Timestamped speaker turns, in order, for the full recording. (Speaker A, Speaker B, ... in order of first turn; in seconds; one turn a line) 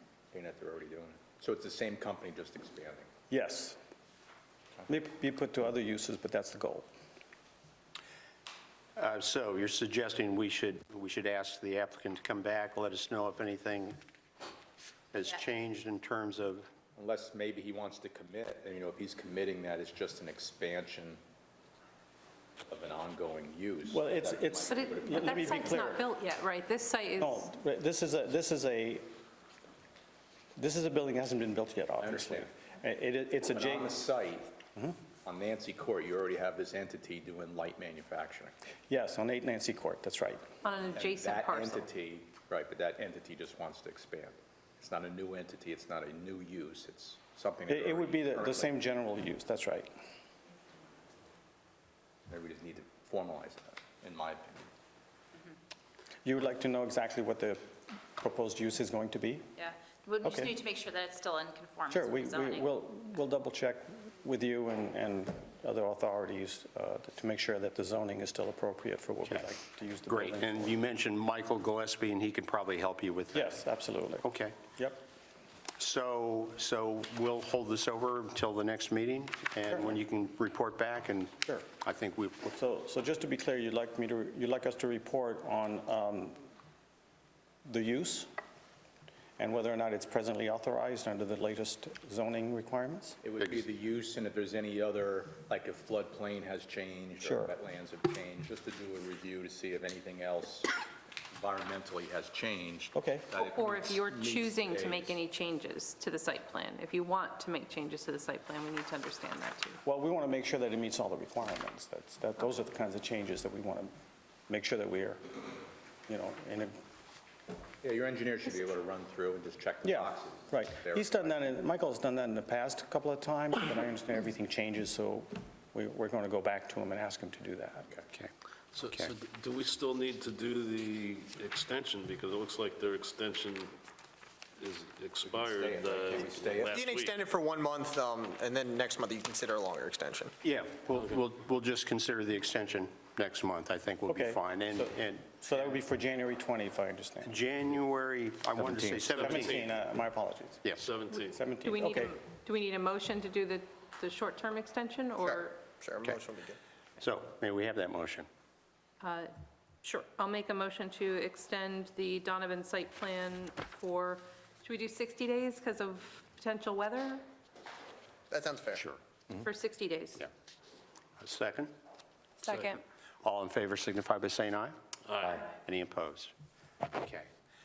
Speaker A: 0.3-3.1
Speaker B: 3.3-3.8
Speaker B: 4.9-6.9
Speaker C: 8.9-14.0
Speaker C: 15.1-16.7
Speaker A: 16.9-21.2
Speaker A: 22.7-25.9
Speaker B: 23.9-26.1
Speaker D: 24.6-27.4
Speaker B: 27.2-29.0
Speaker B: 30.6-33.9
Speaker A: 32.0-32.5
Speaker A: 33.5-34.5
Speaker A: 35.2-38.5
Speaker B: 38.9-40.4
Speaker D: 40.6-41.9
Speaker A: 40.9-48.7
Speaker B: 47.7-49.9
Speaker A: 52.3-54.6
Speaker B: 56.2-59.5
Speaker E: 59.6-62.7
Speaker B: 60.2-60.5
Speaker B: 61.9-70.8
Speaker C: 69.2-69.5
Speaker C: 70.1-73.5
Speaker B: 73.3-74.2
Speaker C: 74.2-74.6
Speaker B: 74.8-75.0
Speaker C: 75.8-82.5
Speaker B: 82.5-86.5
Speaker B: 87.7-88.3
Speaker B: 89.4-93.2
Speaker A: 93.2-100.7
Speaker B: 97.2-97.5
Speaker A: 101.3-105.2
Speaker B: 102.9-103.3
Speaker D: 103.3-109.8
Speaker B: 109.8-113.9
Speaker B: 114.5-115.4
Speaker B: 116.1-116.7
Speaker A: 117.8-121.4
Speaker B: 119.8-127.9
Speaker F: 128.7-133.7
Speaker F: 134.6-137.2
Speaker A: 135.2-136.9
Speaker G: 136.7-140.3
Speaker C: 140.4-145.4
Speaker B: 144.1-147.4
Speaker C: 147.2-149.6
Speaker F: 149.0-149.7
Speaker B: 149.1-152.2
Speaker C: 150.6-150.9
Speaker F: 150.8-151.4
Speaker D: 151.1-155.6
Speaker G: 155.2-156.6
Speaker C: 157.0-158.3
Speaker D: 159.0-159.3
Speaker D: 159.8-167.2
Speaker G: 168.3-168.8
Speaker C: 168.7-169.4
Speaker D: 169.4-170.2
Speaker C: 171.2-171.7
Speaker D: 172.4-172.8
Speaker C: 172.4-176.3
Speaker C: 176.8-177.3